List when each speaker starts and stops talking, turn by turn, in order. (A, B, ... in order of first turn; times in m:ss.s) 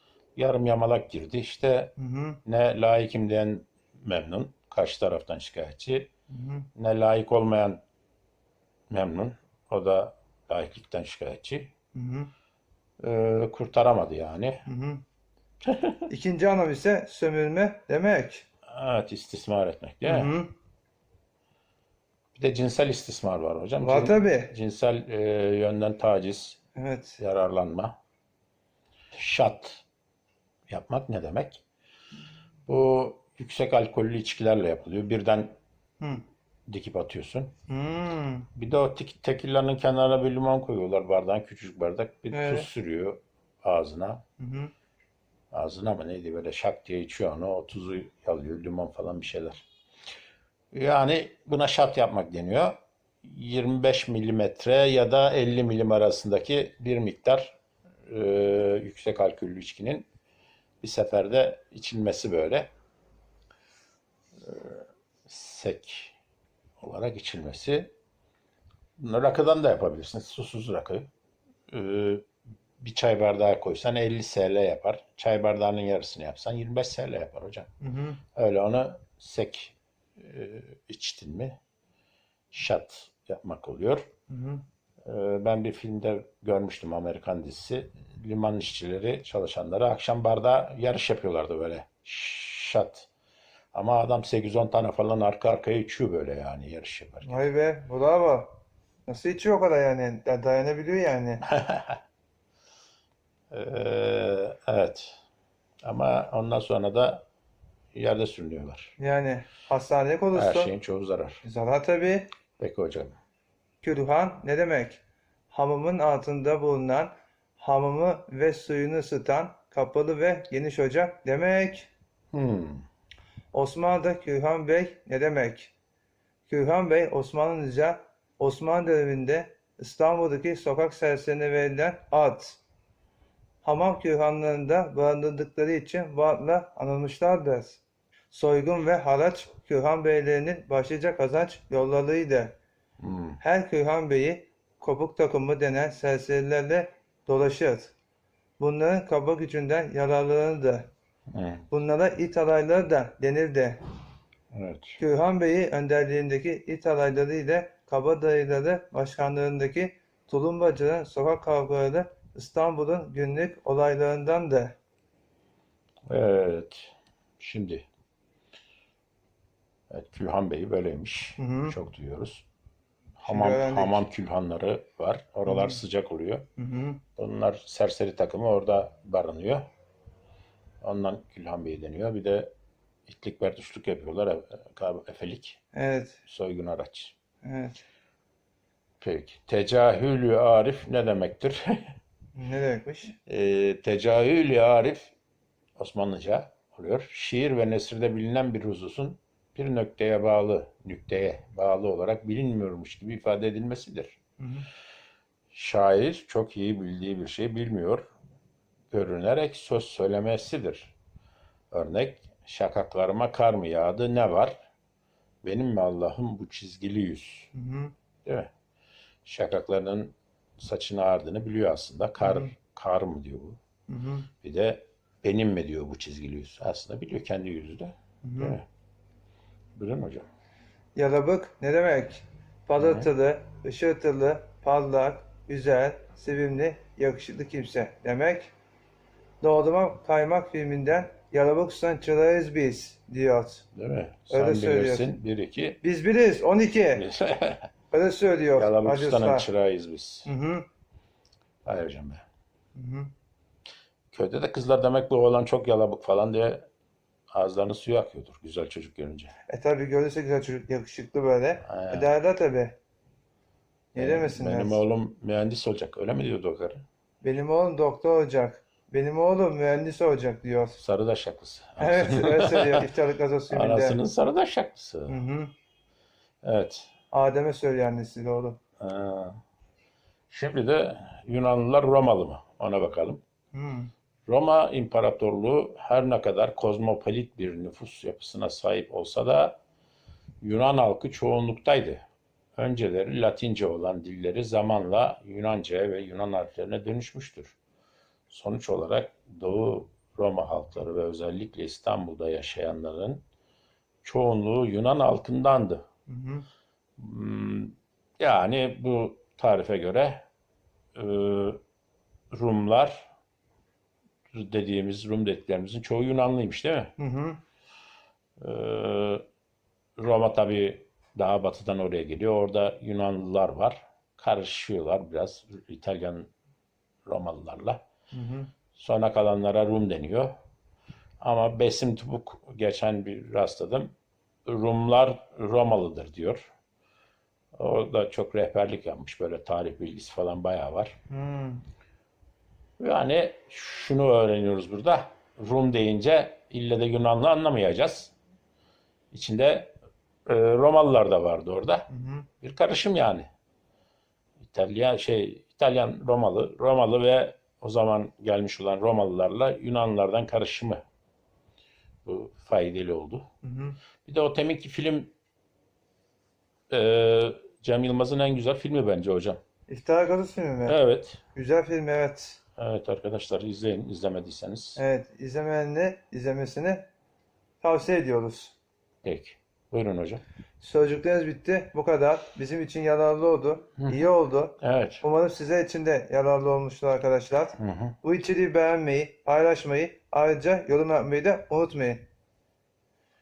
0:00.4-0:01.9 A
0:02.0-0:02.4 B
0:02.4-0:06.1 A
0:06.3-0:06.7 B
0:06.8-0:07.8 A
0:08.9-0:11.7 A
0:11.9-0:12.3 B
0:13.0-0:14.6 A
0:14.6-0:15.0 B
0:15.6-0:16.0 A
0:16.1-0:18.4 B
0:18.7-0:20.3 A
0:20.0-0:20.5 B
0:22.4-0:26.6 A
0:23.8-0:24.5 B
0:26.8-0:27.2 B
0:27.2-0:28.0 A
0:29.1-0:29.8 A
0:30.7-0:31.6 A
0:32.7-0:35.5 A
0:36.7-0:37.5 A
0:37.7-0:38.5 B
0:38.5-0:44.2 A
0:42.3-0:42.7 B
0:44.4-0:44.7 B
0:45.5-0:49.6 A
0:50.7-1:00.1 A
1:00.8-1:02.7 A
1:04.4-1:06.1 A
1:06.8-1:07.9 A
1:09.0-1:11.1 A
1:11.7-1:12.3 A
1:12.8-1:17.7 A
1:17.8-1:18.2 B
1:18.4-1:21.6 A
1:22.5-1:24.1 A
1:24.3-1:24.6 B
1:25.0-1:33.1 A
1:33.7-1:37.5 A
1:37.2-1:38.5 B
1:39.1-1:41.4 B
1:41.5-1:42.0 A
1:43.5-1:45.2 A
1:45.8-1:47.2 A
1:47.9-1:48.9 A
1:49.0-1:50.7 B
1:50.3-1:51.4 A
1:51.4-1:52.3 B
1:52.6-1:53.1 A
1:53.8-2:01.9 B
2:02.3-2:02.8 A
2:03.5-2:05.7 B
2:06.5-2:12.6 B
2:13.6-2:22.5 B
2:23.0-2:23.4 A
2:23.4-2:27.9 B
2:28.6-2:30.9 B
2:31.3-2:31.6 A
2:31.7-2:33.8 B
2:34.5-2:35.0 A
2:35.0-2:44.7 B
2:46.1-2:47.8 A
2:49.9-2:52.4 A
2:51.4-2:51.7 B
2:53.2-2:56.4 A
2:53.2-2:54.0 B
2:55.4-2:55.8 B
2:56.6-2:57.0 B
2:57.2-2:59.7 A
3:00.8-3:02.5 A
3:03.0-3:05.6 A
3:05.7-3:06.2 B
3:06.3-3:07.1 A
3:07.4-3:07.8 B
3:09.0-3:11.9 A
3:12.4-3:13.1 B
3:13.2-3:15.1 A
3:15.8-3:24.2 A
3:24.4-3:24.7 B
3:25.5-3:28.0 A
3:28.9-3:30.9 A
3:31.7-3:34.5 A
3:35.4-3:37.5 A
3:37.5-3:37.9 B
3:38.2-3:38.5 A
3:39.2-3:43.6 A
3:42.2-3:42.5 B
3:43.9-3:44.3 B
3:44.4-3:48.6 A
3:48.2-3:48.6 B
3:49.8-3:50.2 A
3:51.0-3:58.5 B
3:52.8-3:53.1 A
3:59.4-4:03.6 B
4:03.7-4:05.8 A
4:04.3-4:05.1 B
4:05.8-4:07.0 B
4:07.0-4:07.7 A
4:07.9-4:09.5 B
4:08.6-4:10.3 A
4:10.2-4:10.6 B
4:11.6-4:12.2 A
4:12.7-4:13.1 B
4:14.1-4:16.7 A
4:17.3-4:19.3 A
4:19.5-4:22.8 B
4:21.6-4:22.1 A
4:23.9-4:24.8 B
4:24.0-4:26.8 A
4:27.2-4:30.8 B
4:30.8-4:32.9 A
4:31.8-4:34.0 B
4:33.5-4:35.2 A
4:35.1-4:35.5 B
4:36.4-4:36.9 A
4:37.1-4:38.6 B
4:38.8-4:39.4 A
4:40.3-4:43.2 A
4:43.5-4:43.9 B
4:44.2-4:49.6 A
4:50.4-4:52.0 A
4:52.6-4:57.6 A
4:58.3-5:03.2 A
5:04.0-5:05.8 A
5:06.1-5:06.4 B
5:07.0-5:10.2 A
5:10.9-5:11.6 A
5:12.3-5:13.1 A
5:14.3-5:16.9 A
5:17.0-5:17.4 B
5:18.4-5:19.2 A
5:20.0-5:26.3 A
5:27.0-5:27.8 A
5:28.1-5:28.5 B
5:28.7-5:30.3 A
5:31.2-5:33.9 A
5:34.4-5:36.5 A
5:37.5-5:40.9 A
5:41.1-5:41.6 B
5:42.8-5:48.1 A
5:49.1-5:49.7 A
5:50.2-5:51.9 A
5:51.9-5:52.3 B
5:52.4-5:53.2 A
5:54.4-6:00.8 A
6:02.0-6:03.2 A
6:03.4-6:03.8 B
6:04.0-6:05.1 A
6:06.7-6:09.4 A
6:09.7-6:10.8 B
6:10.6-6:11.2 A
6:11.3-6:12.4 B
6:12.6-6:14.8 A
6:14.8-6:16.8 B
6:17.6-6:18.5 B
6:19.0-6:20.2 A
6:20.6-6:32.0 B
6:23.8-6:24.0 A
6:24.6-6:25.0 A
6:27.6-6:28.0 A